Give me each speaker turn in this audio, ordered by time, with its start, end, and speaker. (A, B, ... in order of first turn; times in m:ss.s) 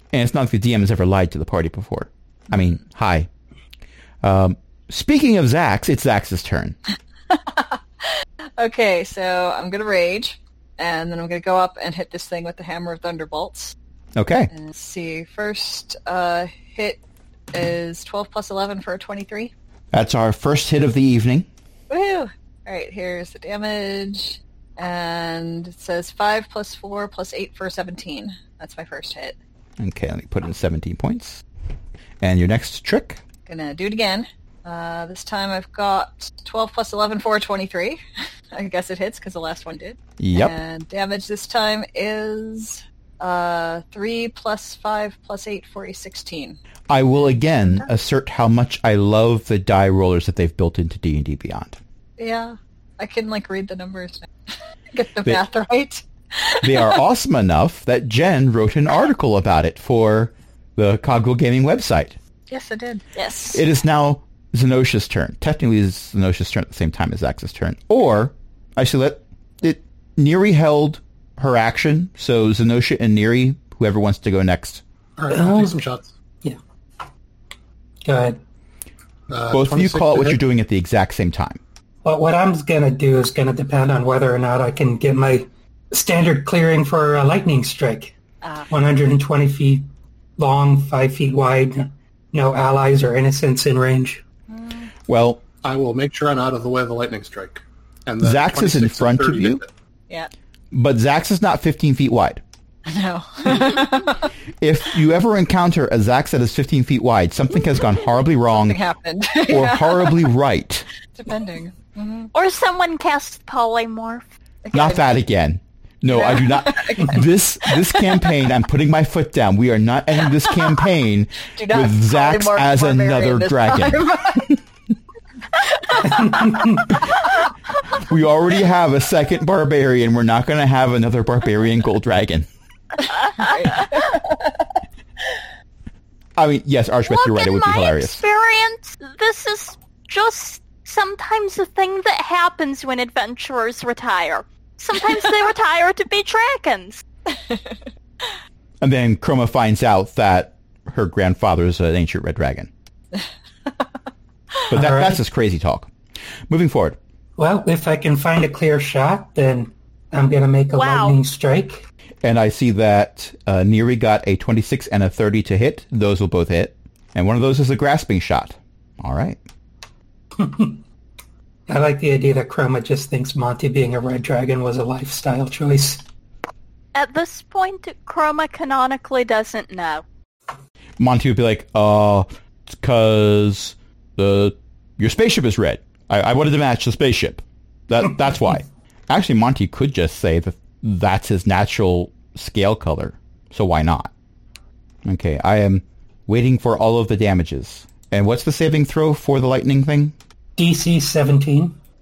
0:00.1-0:03.3 A
0:04.2-0:06.8 A
0:07.3-0:13.8 B
0:14.2-0:14.5 A
0:14.5-0:17.0 B
0:17.5-0:19.5 B
0:19.9-0:21.5 A
0:21.9-0:29.4 B
0:29.8-0:31.4 A
0:32.2-0:33.2 A
0:33.5-0:38.0 B
0:38.5-0:46.6 B
0:40.2-0:40.6 A
0:46.9-0:51.8 A
0:52.2-0:54.3 B
0:54.9-0:57.0 B
0:56.6-1:02.2 A
1:02.5-1:03.0 B
1:03.2-1:03.6 C
1:03.5-1:14.8 A
1:15.2-1:16.1 D
1:15.3-1:15.8 E
1:18.0-1:18.4 E
1:19.3-1:20.4 D
1:19.5-1:21.6 A
1:22.0-1:28.1 E
1:28.4-1:28.7 B
1:28.7-1:29.9 E
1:30.4-1:34.2 E
1:34.5-1:34.9 B
1:35.1-1:35.4 A
1:35.6-1:39.7 D
1:38.2-1:39.6 A
1:40.7-1:42.4 A
1:42.9-1:44.3 B
1:44.6-1:48.8 A
1:48.5-1:50.2 B
1:49.5-1:50.9 A
1:51.1-1:52.3 B
1:52.3-1:54.3 C
1:54.6-1:55.1 B
1:54.7-2:04.6 A
1:56.1-1:58.0 B
2:01.5-2:04.5 B
2:05.6-2:06.8 B
2:06.1-2:06.9 E
2:07.9-2:12.5 A
2:13.2-2:14.4 B
2:16.4-2:18.2 A
2:17.1-2:27.0 C
2:27.5-2:27.8 B
2:28.8-2:32.7 A
2:34.7-2:35.9 A
2:34.7-2:35.2 E
2:36.5-2:37.0 A
2:37.4-2:41.8 E
2:40.7-2:41.2 C
2:42.2-2:49.4 A
2:50.4-2:50.8 E
2:51.7-2:56.0 E
2:57.0-3:00.0 C
3:01.0-3:14.1 A
3:15.0-3:20.1 A
3:20.6-3:21.8 E